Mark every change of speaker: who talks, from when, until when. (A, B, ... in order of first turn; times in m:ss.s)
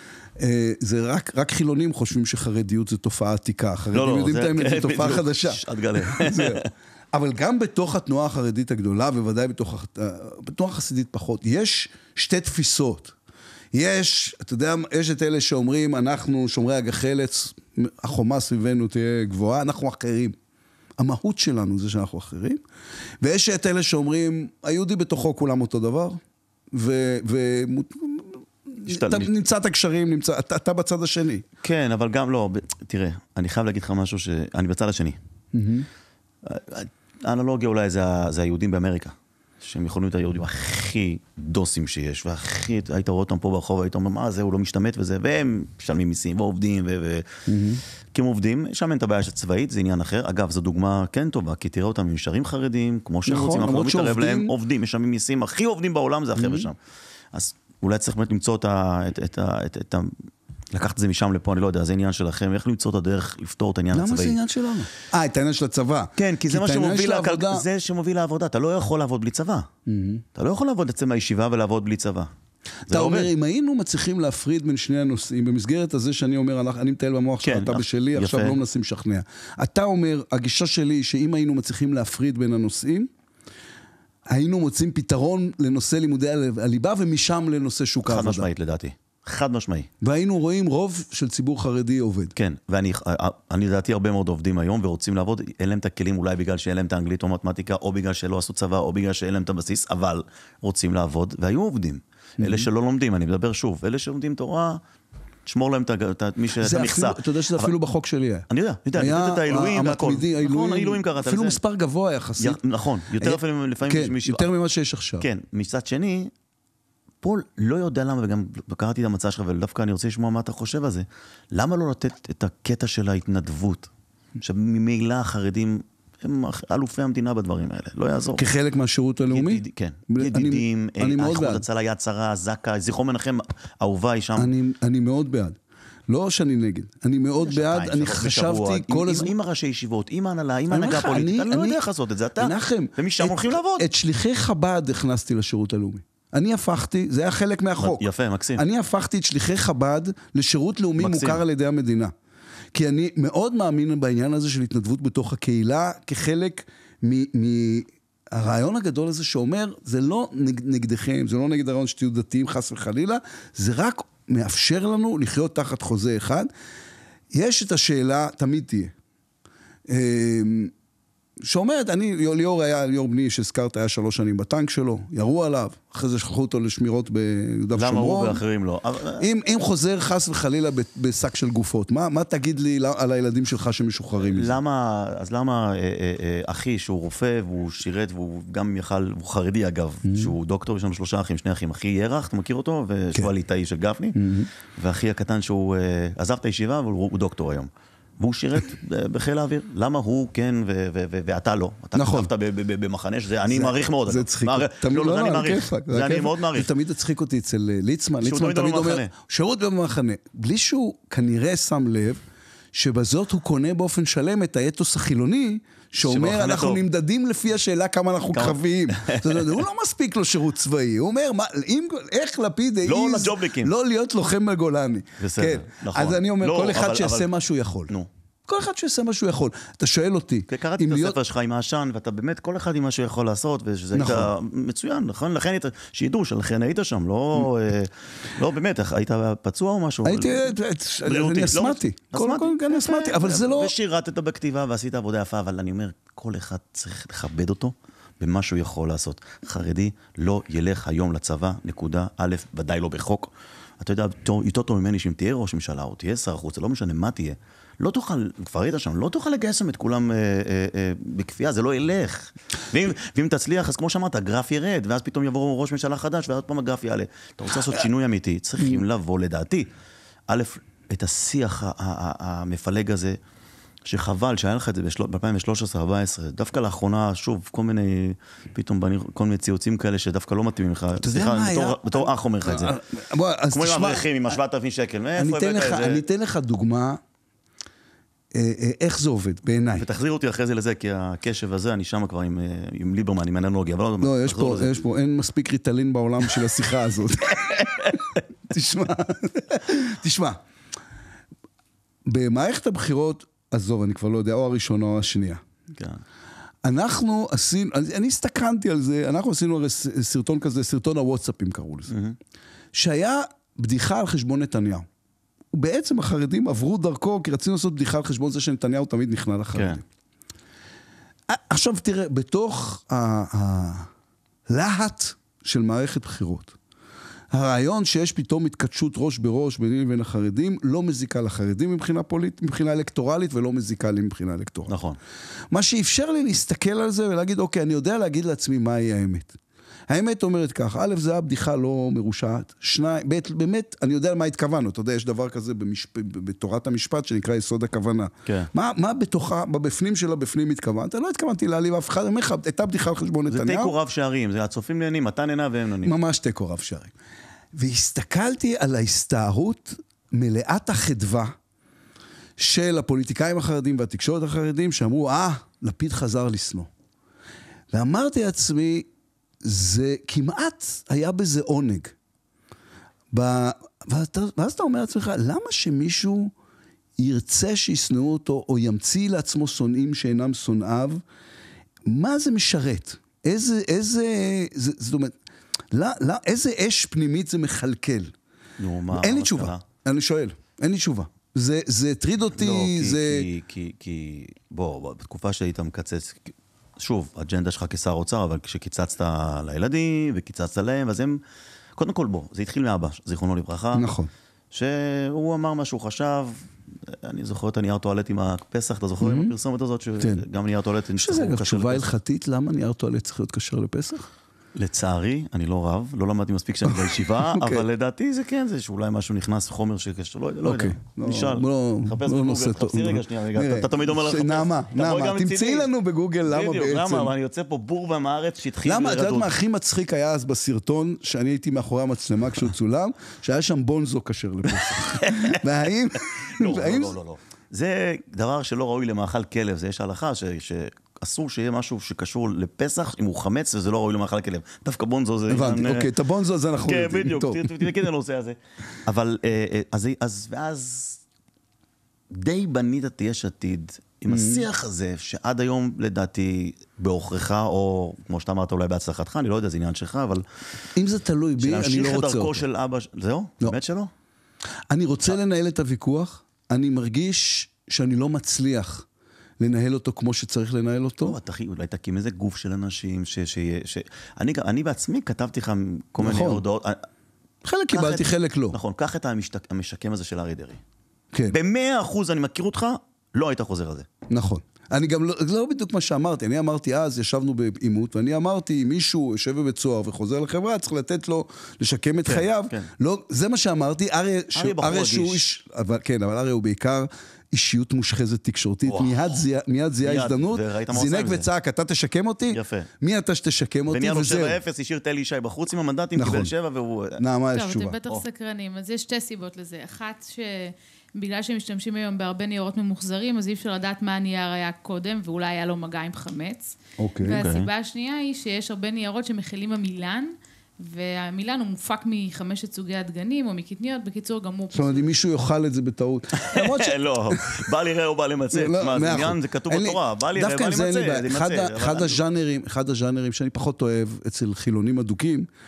0:00.4-0:13.1 A
0:03.9-0:06.7 B
0:13.7-0:20.3 A
0:21.0-0:22.6 A
0:23.2-0:26.2 A
0:26.7-0:31.4 A
0:28.9-0:29.3 B
0:31.6-0:35.2 B
0:35.5-0:35.9 A
0:36.4-0:47.3 B
0:47.4-0:47.8 A
0:48.1-0:56.8 B
0:53.2-0:54.5 A
0:56.4-0:56.7 A
0:57.3-1:04.4 B
1:03.9-1:07.6 A
1:06.2-1:09.7 B
1:09.9-1:10.2 A
1:10.3-1:12.3 B
1:12.9-1:13.3 B
1:12.9-1:23.1 A
1:17.4-1:18.6 B
1:24.3-1:28.5 A
1:28.0-1:29.9 B
1:30.0-1:32.3 A
1:32.4-1:44.8 B
1:42.4-1:42.7 A
1:45.4-1:47.7 B
1:46.6-1:52.6 A
1:48.5-1:51.6 B
1:52.4-1:54.5 B
1:53.2-1:55.3 A
1:55.2-1:56.3 B
1:57.2-2:08.4 B
2:08.4-2:11.6 A
2:09.3-2:14.5 B
2:14.4-2:15.6 A
2:16.1-2:19.3 A
2:17.4-2:23.8 B
2:20.7-2:21.8 A
2:22.4-2:28.0 A
2:27.8-2:28.6 B
2:28.6-2:32.1 A
2:31.0-2:31.4 B
2:32.7-2:46.5 A
2:47.3-2:48.9 A
2:49.9-2:50.7 A
2:51.4-2:58.4 A
2:57.7-2:59.3 B
2:59.2-3:04.6 A
3:04.2-3:14.2 B
3:10.0-3:10.3 A
3:14.1-3:14.5 A
3:14.7-3:26.7 B
3:21.9-3:22.3 A
3:23.5-3:32.2 A
3:28.2-3:29.1 B
3:32.7-3:47.9 A
3:36.0-3:36.8 B
3:38.3-3:39.6 B
3:42.8-3:43.7 B
3:45.2-3:47.3 B
3:48.5-3:51.2 A
3:50.5-4:00.5 B
3:53.9-3:54.3 A
4:00.0-4:03.7 A
4:01.0-4:29.7 B
4:30.3-4:33.2 B
4:33.8-4:42.8 B
4:41.0-4:44.1 A
4:43.5-4:46.0 B
4:45.2-4:47.0 A
4:48.3-4:49.8 A
4:49.8-4:54.7 B
4:54.0-5:00.4 A
4:57.6-4:57.9 B
5:02.0-5:05.4 A
5:06.6-5:11.9 A
5:11.9-5:12.2 B
5:12.7-5:14.8 A
5:15.5-5:19.8 A
5:19.5-5:19.8 B
5:21.3-5:23.9 A
5:24.5-5:26.6 A
5:27.3-5:34.7 A
5:34.7-5:35.0 B
5:35.5-5:39.4 A
5:39.9-5:53.7 A
5:53.3-5:56.0 B
5:55.8-5:56.9 A
5:57.5-6:01.3 A
6:02.4-6:06.7 A
6:07.7-6:08.9 A
6:09.4-6:11.9 A
6:13.1-6:16.3 A
6:17.0-6:21.0 A
6:21.9-6:25.2 A
6:25.7-6:28.1 A
6:28.6-6:29.6 B
6:28.9-6:33.3 A
6:32.3-6:41.2 B
6:41.8-6:43.9 B
6:43.7-6:44.1 A
6:44.5-6:51.9 B
6:49.0-6:49.3 A
6:51.0-6:54.1 A
6:54.5-7:05.7 B
6:56.6-6:57.6 A
7:00.4-7:07.1 A
7:06.2-7:09.3 B
7:08.6-7:17.0 A
7:14.5-7:15.4 B
7:16.2-7:25.9 B
7:25.3-7:27.7 A
7:26.6-7:31.0 B
7:32.1-7:40.2 B
7:34.1-7:34.4 A
7:40.7-7:42.4 A
7:41.4-7:43.9 B
7:44.7-7:48.8 A
7:49.4-7:51.2 A
7:51.0-7:56.8 B
7:56.0-7:56.4 A
7:57.4-7:58.6 A
7:57.7-8:00.6 B
8:01.3-8:03.9 B
8:04.1-8:24.4 A
8:12.0-8:12.7 B
8:14.3-8:15.2 B
8:18.6-8:19.2 B
8:19.8-8:21.3 B
8:22.3-8:22.7 B
8:23.7-8:27.0 B
8:26.0-8:26.3 A
8:27.0-8:27.8 A
8:27.3-8:44.8 C
8:36.8-8:37.2 A
8:37.1-8:37.5 B
8:44.5-8:47.4 A
8:46.1-8:52.0 B
8:48.3-8:55.3 A